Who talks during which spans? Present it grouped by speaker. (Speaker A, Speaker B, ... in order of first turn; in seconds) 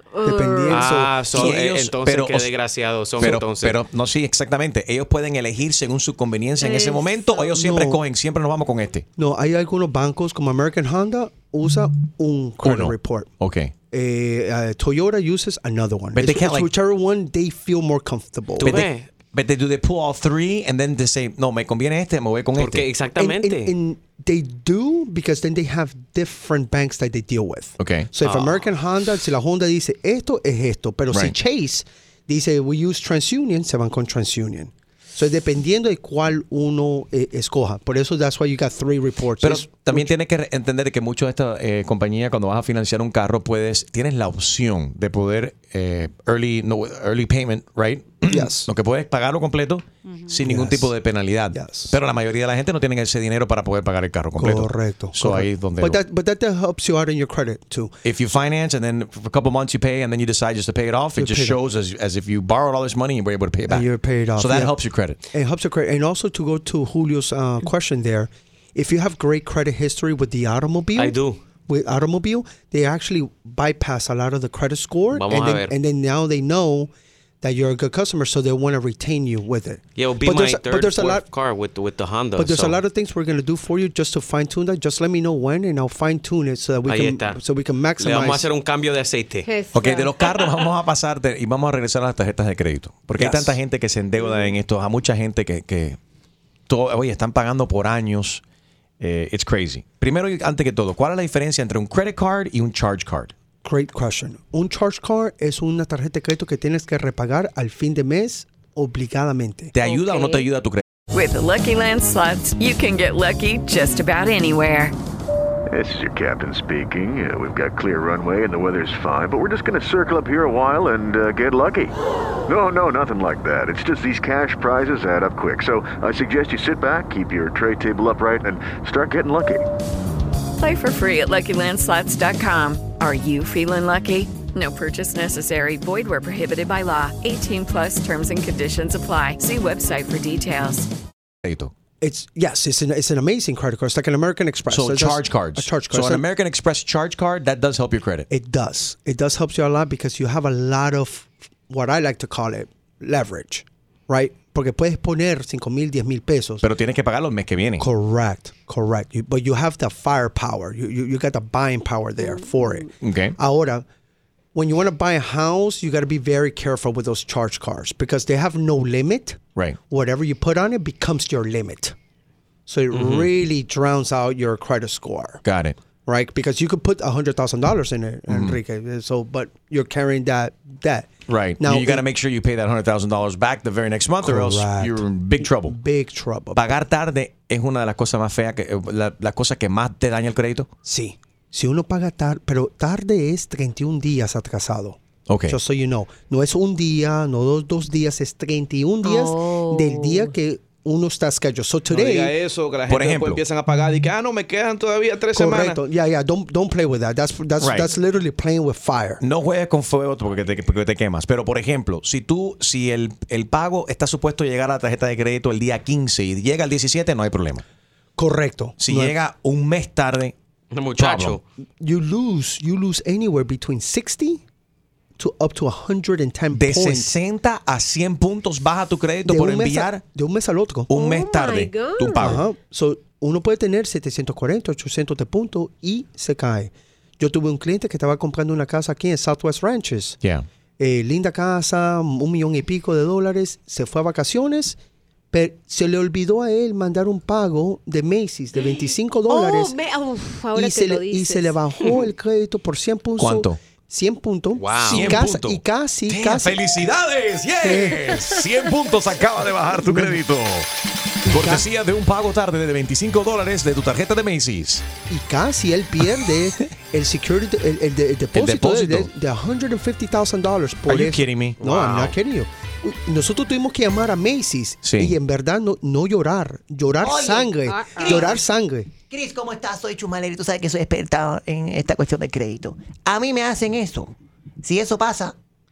Speaker A: 0.1-0.8, 6.6-7.4, 89.4-90.2, 109.8-110.4, 199.0-200.3, 230.9-232.3, 248.6-251.5, 277.7-278.3
Speaker B: 0.2-1.4, 7.5-8.0, 9.2-13.3, 13.9-18.8, 23.1-40.1, 48.3-48.7, 50.4-50.9, 51.5-52.0, 54.4-58.0, 61.2-61.6, 63.7-64.7, 65.3-81.2, 82.4-88.5, 103.6-109.7, 142.0-146.2, 148.3-156.6, 157.8-163.8, 164.5-171.9, 172.7-175.4, 176.1-182.0, 184.2-186.7, 190.8-202.3, 205.3-209.2, 218.2-219.1, 221.8-224.4, 225.2-227.1, 229.2-230.9, 232.2-240.2, 240.8-244.8, 245.3-249.8, 250.5-256.6, 257.6-258.2, 259.8-260.2, 261.2-261.6, 265.1-278.9
Speaker C: 0.7-3.8, 18.6-19.1, 22.6-23.7, 28.2-28.6, 71.0-71.4, 75.1-75.7, 80.0-82.8, 86.9-87.4, 88.0-89.5, 220.7-221.4, 254.6-255.2
Speaker D: 1.3-2.5, 3.2-9.1, 12.6-13.7, 16.1-16.7, 18.6-22.9, 27.8-28.1, 39.4-56.0, 58.0-65.2, 89.7-96.0, 96.7-98.4, 99.0-103.3, 109.7-110.8, 141.4-141.7, 144.7-148.3, 156.6-157.9, 163.0-163.3, 175.4-175.8, 178.3-178.6, 181.3-185.8, 186.5-190.7, 195.3-195.6, 202.9-203.4, 207.6-207.9, 209.2-217.6, 218.8-220.3, 221.0-221.4, 226.5-230.0, 230.9-232.4, 253.2-253.6, 254.8-260.7, 261.2-264.9, 268.3-269.1, 270.9-272.1, 274.8-275.1
Speaker E: 111.1-114.9, 130.6-140.9
Speaker F: 115.7-121.9, 122.5-129.6
Speaker G: 201.9-205.8
Speaker H: 277.0-278.3, 279.1-285.4